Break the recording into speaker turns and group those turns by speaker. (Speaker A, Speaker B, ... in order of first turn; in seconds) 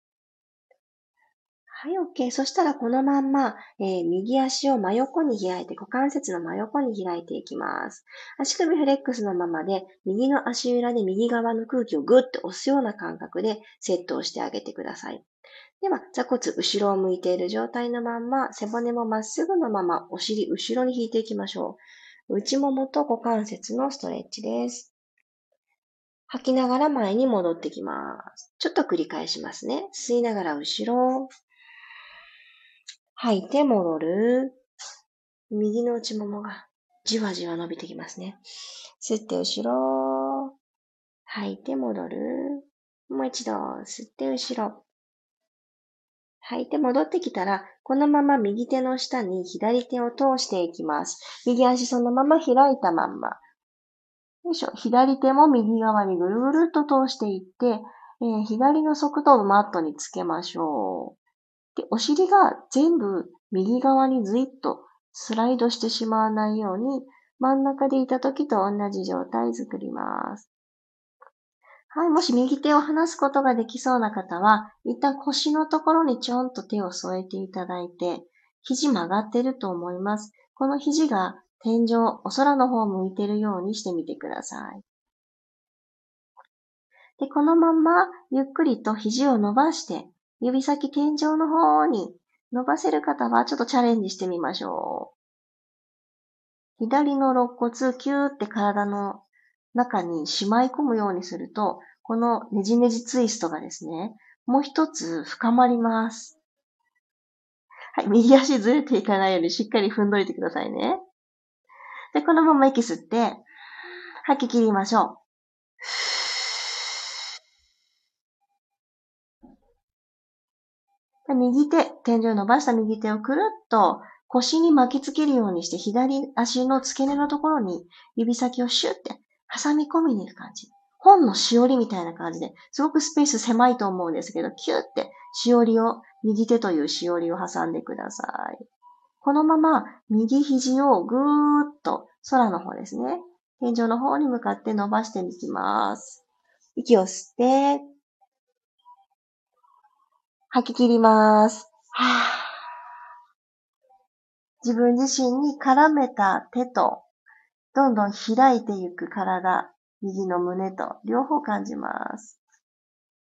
Speaker A: 1.7-15.2, 15.8-24.9, 26.3-31.3, 33.2-34.6, 35.5-38.4, 39.0-40.5, 41.3-44.8, 46.4-53.4, 54.5-61.2, 61.8-70.5, 71.9-84.8, 87.2-95.1, 96.8-106.4, 107.9-111.0, 112.1-113.4, 114.2-115.2, 121.3-138.6, 139.2-146.2, 146.8-147.8, 150.5-152.5, 154.6-157.0, 157.7-162.4